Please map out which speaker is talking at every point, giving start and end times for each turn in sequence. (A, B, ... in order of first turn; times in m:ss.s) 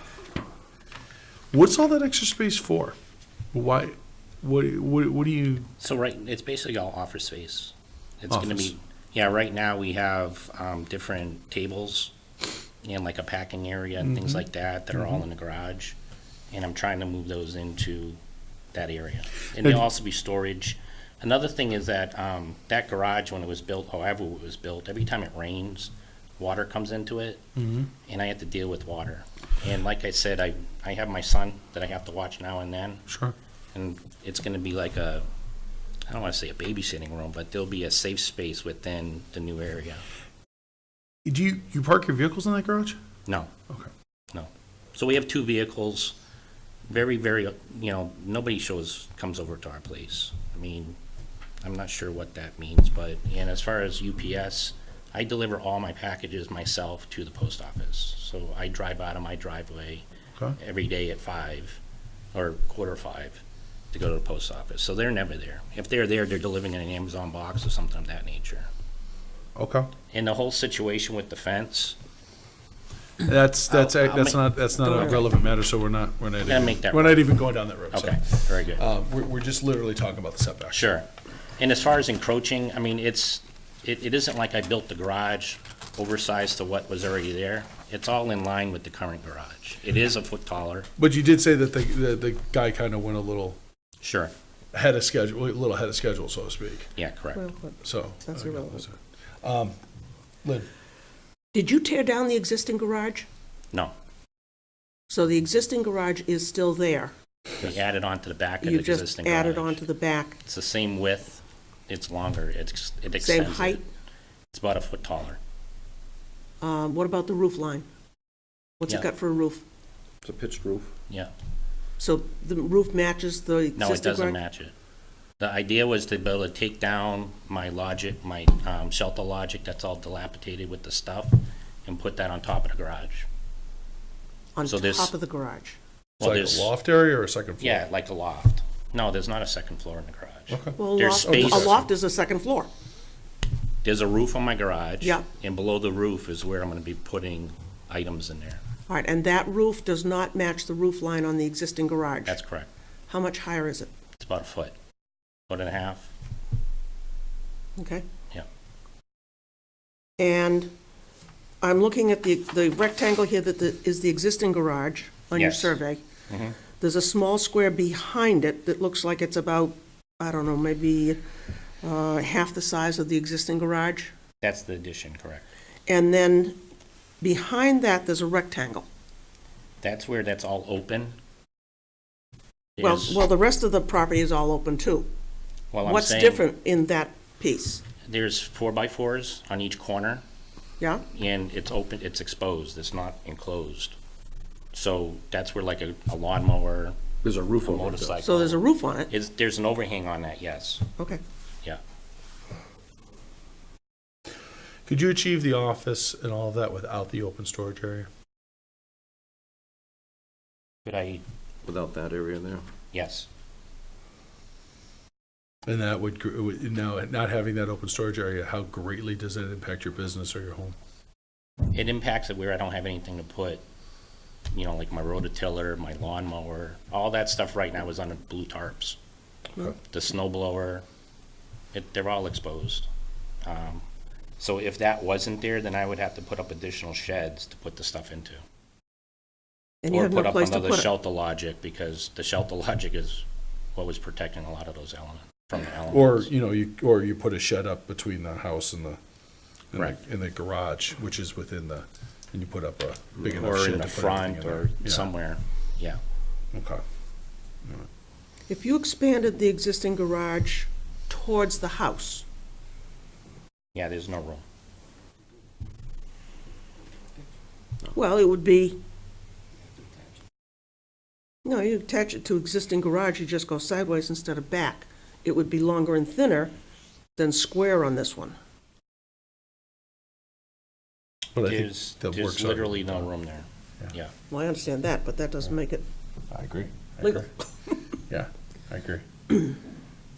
0:01.5-0:02.9 A
0:03.5-0:05.7 A
0:05.8-0:12.1 B
0:08.3-0:08.7 A
0:12.8-0:16.0 B
0:14.0-0:14.4 A
0:14.9-0:15.2 A
0:16.5-0:18.2 B
0:18.7-0:27.4 B
0:27.6-0:27.9 A
0:28.1-0:33.0 B
0:33.1-0:33.3 A
0:33.7-0:35.3 B
0:36.1-0:40.0 B
0:41.2-0:43.0 A
0:44.3-0:46.2 B
0:46.9-0:51.0 B
0:51.6-1:00.0 B
1:00.6-1:01.8 B
1:02.3-1:03.4 B
1:03.9-1:08.7 B
1:09.6-1:09.9 A
1:10.1-1:12.0 B
1:13.2-1:20.8 A
1:13.7-1:15.2 B
1:14.8-1:15.2 C
1:16.4-1:17.3 B
1:17.9-1:18.8 B
1:20.7-1:21.1 B
1:21.6-1:30.9 B
1:31.0-1:33.6 A
1:34.0-1:34.3 B
1:34.7-1:36.9 A
1:37.0-1:37.4 B
1:37.3-1:38.8 C
1:37.8-1:39.8 A
1:41.5-1:43.2 C
1:45.1-1:47.1 C
1:47.6-1:49.8 B
1:48.6-1:50.4 C
1:50.4-1:53.8 B
1:53.2-1:53.8 C
1:54.5-1:55.4 B
1:56.6-1:57.9 C
1:58.8-1:59.6 C
2:00.2-2:00.9 D
2:02.0-2:04.4 C
2:03.8-2:04.7 B
2:05.4-2:13.2 B
2:14.6-2:15.8 C
2:14.7-2:15.1 B
2:16.2-2:16.7 B
2:16.2-2:17.8 A
2:17.6-2:21.8 B
2:20.5-2:21.8 A
2:20.8-2:22.7 C
2:23.8-2:28.6 B
2:28.9-2:32.4 C
2:32.2-2:32.7 B
2:33.1-2:33.9 C
2:34.2-2:34.7 B
2:35.5-2:36.1 B
2:37.8-2:38.0 C
2:40.2-2:40.7 C
2:41.6-2:46.0 C
2:45.3-2:45.8 B
2:46.3-2:46.6 B
2:46.8-2:51.2 C
2:51.8-2:54.1 C
2:54.4-2:55.4 B
2:55.9-2:56.6 C
2:57.2-2:58.8 C
2:59.8-3:01.1 B
3:02.8-3:03.2 B
3:02.8-3:05.1 C
3:05.7-3:06.4 B
3:05.8-3:07.8 C
3:08.0-3:10.2 B
3:10.8-3:11.0 C
3:11.1-3:14.0 B
3:14.7-3:17.0 B
3:17.2-3:18.2 D
3:17.6-3:20.9 B
3:18.2-3:19.1 C
3:24.8-3:28.1 A
3:30.8-3:31.2 B
3:31.6-3:32.6 D
3:32.9-3:33.3 B
3:35.6-3:40.8 A
3:41.7-3:43.6 B
3:44.5-3:49.0 B
3:49.8-3:50.8 B
3:51.7-3:52.9 B
3:53.4-3:53.8 B
3:54.4-3:58.4 B
3:59.8-4:00.9 C
3:59.9-4:03.2 B
4:03.7-4:06.3 B
4:05.9-4:09.0 A
4:09.7-4:15.1 A
4:13.2-4:16.0 B
4:16.5-4:16.8 A
4:18.5-4:22.2 C
4:23.7-4:24.4 B
4:27.9-4:28.8 C
4:31.4-4:36.5 C
4:37.2-4:38.3 C
4:41.3-4:43.1 A
4:41.4-4:44.1 B
4:44.3-4:45.8 C
4:46.3-4:47.3 A
4:48.1-4:49.0 A